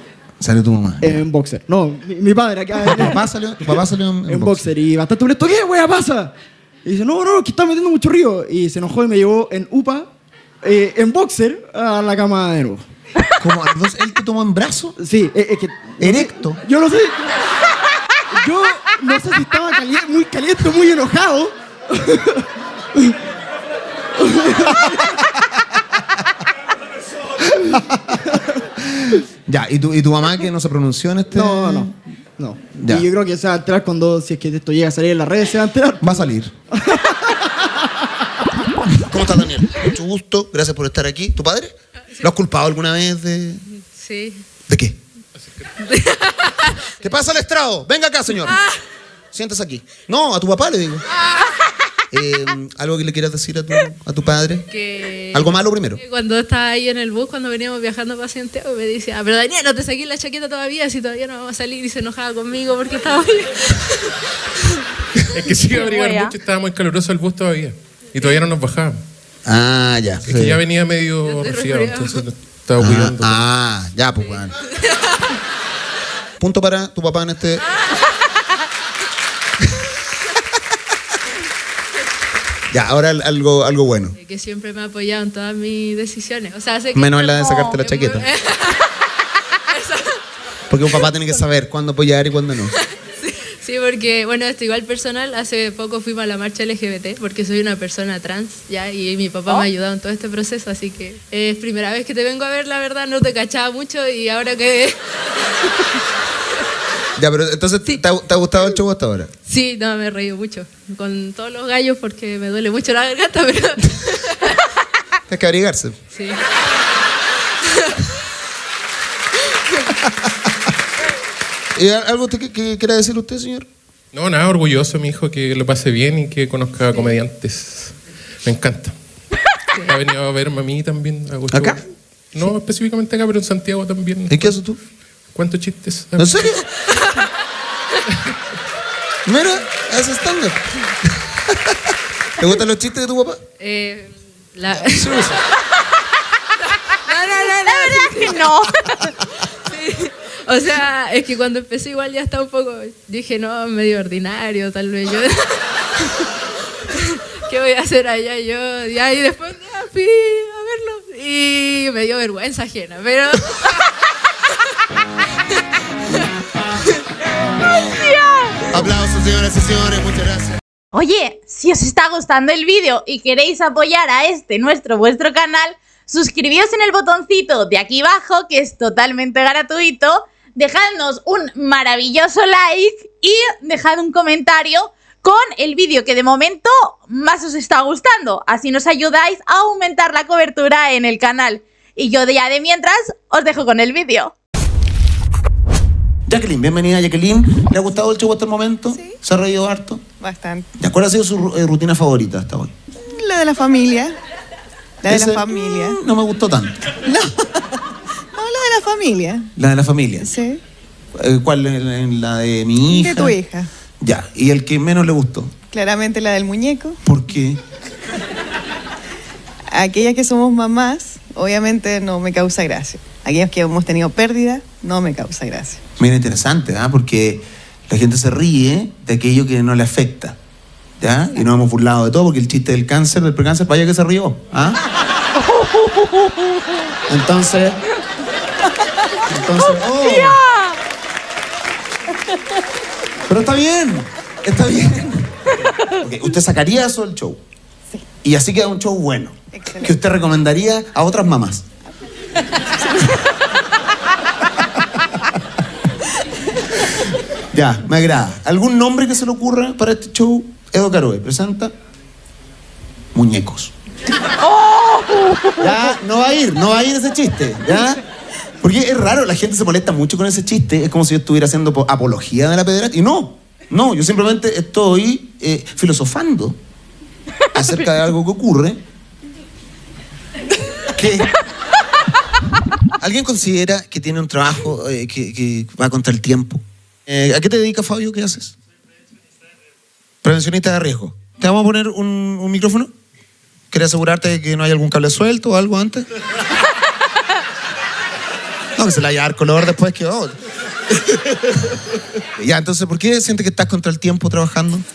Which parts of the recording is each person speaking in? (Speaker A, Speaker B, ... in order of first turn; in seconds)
Speaker A: 0.4-1.2, 2.8-4.6, 13.4-14.9, 16.0-16.6, 27.7-31.9, 32.8-33.0, 36.0-36.5, 38.9-43.6, 44.7-45.0, 47.0-48.6, 49.3-51.0, 52.1-54.7, 55.3-56.0, 69.4-70.6, 72.8-74.5, 76.4-77.6, 82.7-84.1, 86.9-88.3, 90.7-92.7, 107.2-109.3, 115.3-116.0, 121.7-123.7, 131.5-131.8, 134.3-134.8, 136.2-136.6, 139.2-141.8, 142.4-143.4, 144.8-145.3, 168.7-170.5, 196.3-200.0, 200.8-202.7, 205.1-207.0, 209.6-210.3, 211.1-213.4, 214.0-215.5, 217.0-217.6, 226.0-230.4, 231.0-234.8, 237.1-237.8, 239.2-240.4, 243.3-245.3, 246.0-247.4, 248.2-251.6, 257.5-261.7, 263.1-263.7, 265.6-268.0, 268.6-276.6, 277.5-278.8, 280.9-281.3, 283.0-288.5, 290.2-292.9, 293.7-296.1, 298.8-300.4, 301.3-301.6, 302.4-304.8
Speaker B: 1.0-3.2, 4.3-6.3, 6.8-10.1, 10.6-12.8, 15.0-17.3, 18.3-23.2, 24.2-25.1, 31.3-37.7
Speaker C: 43.9-44.4, 45.8-47.1, 48.4-48.8, 54.7-63.9, 71.2-72.2, 84.2-88.9, 89.7-90.2, 92.8-105.0, 109.5-114.5, 116.1-116.4, 117.7-118.1, 143.6-145.4, 147.1-148.4, 149.7-156.1, 157.0-163.7
Speaker D: 65.3-69.0, 70.2-73.4, 124.1-128.9, 129.8-136.5
Speaker E: 65.7-66.3, 87.5-87.7, 147.4-149.1, 167.9-168.5, 170.9-194.3
Speaker F: 198.9-199.2, 200.2-200.7, 203.1-204.2, 205.0-206.0, 207.0-207.7, 208.3-209.5, 210.2-210.6, 212.9-213.7, 215.7-217.0, 219.7-225.8, 249.6-249.9